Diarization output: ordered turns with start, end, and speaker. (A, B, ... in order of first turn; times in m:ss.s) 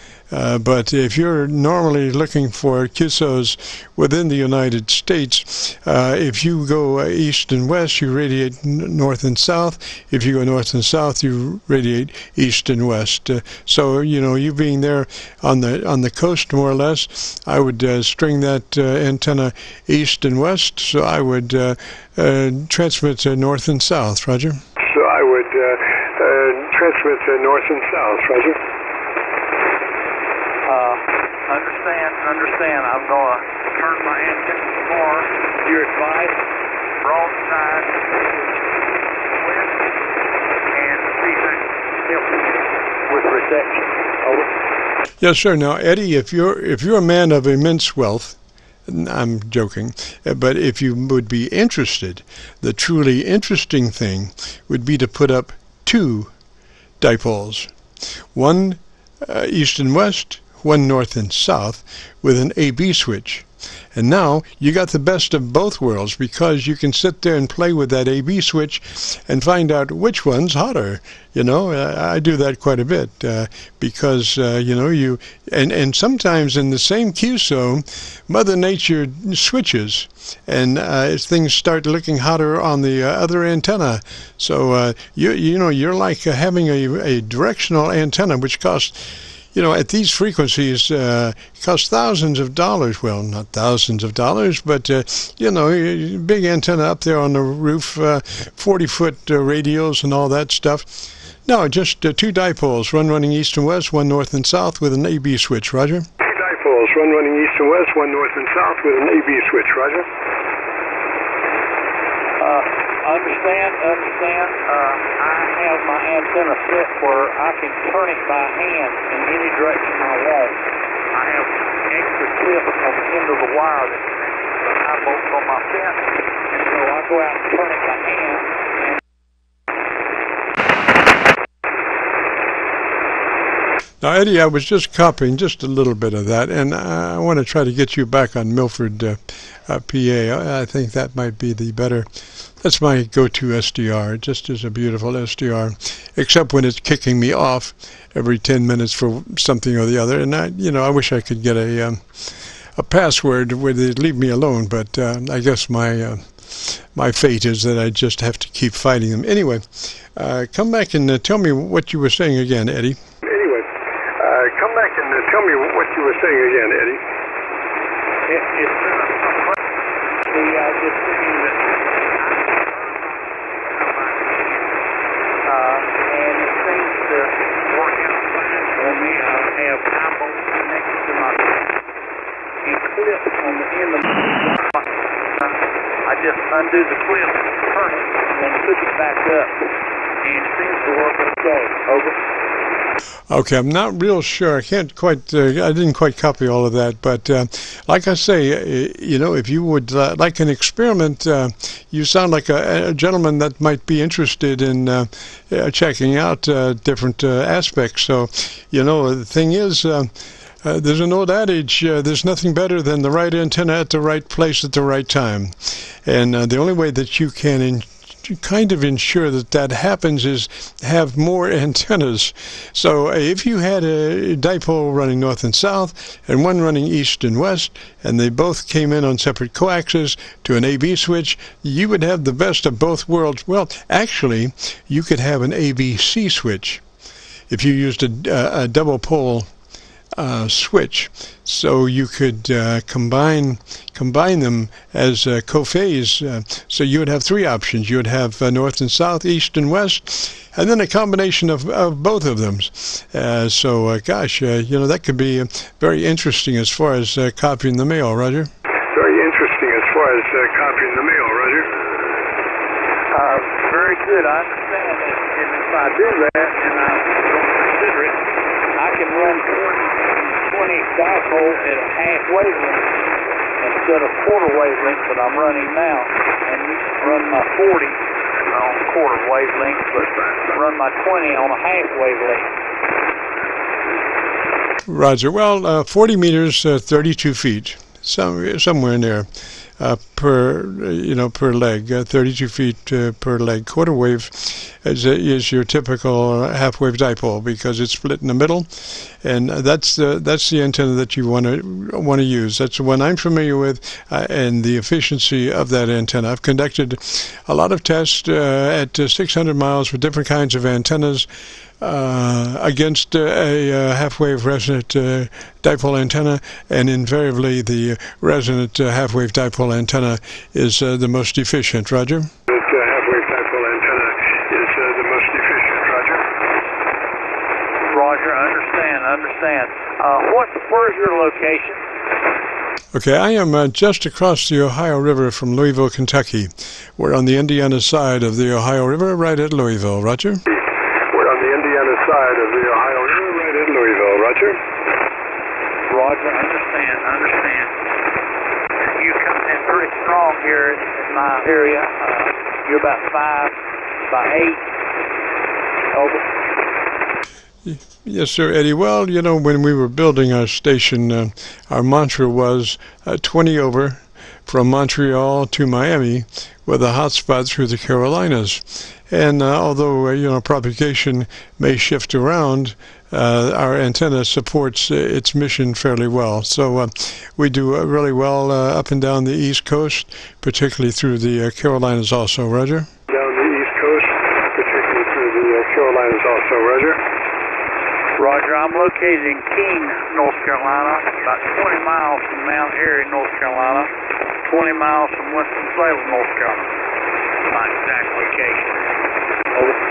0:00.3-0:24.6 A
0:24.8-0:28.6 B
0:30.6-0:36.4 C
0:37.0-0:38.5 C
0:39.3-0:39.8 C
0:40.7-0:44.5 C
0:45.2-0:56.3 A
0:57.0-0:57.7 A
0:58.3-1:46.1 A
1:46.2-1:50.1 B
1:52.4-2:09.0 C
2:14.0-2:22.1 A
2:22.6-2:32.0 A
2:32.8-2:43.0 A
2:43.2-2:43.7 B
2:44.2-2:47.0 B
2:48.3-2:49.6 C
2:50.2-2:54.7 C
2:55.4-3:01.6 C
3:02.6-3:12.2 C
3:13.3-3:30.1 A
3:30.6-3:56.8 A
3:57.5-3:59.5 A
4:00.2-4:18.5 A
4:18.9-4:21.8 B
4:23.1-4:28.2 C
4:28.7-4:33.0 C
4:33.6-4:42.5 C
4:44.9-4:49.3 A
4:49.8-5:11.3 A
5:11.8-5:22.3 A
5:22.5-5:26.2 B
5:27.9-5:31.8 C
5:32.9-5:40.4 A
5:40.5-5:44.6 B
5:45.9-5:47.7 C
5:48.9-5:53.6 C
5:54.1-5:54.6 C
5:55.9-5:56.2 C
5:57.6-6:22.9 A
6:23.1-6:27.0 B
6:28.2-6:33.9 C
6:34.4-6:36.7 C
6:37.5-6:39.0 C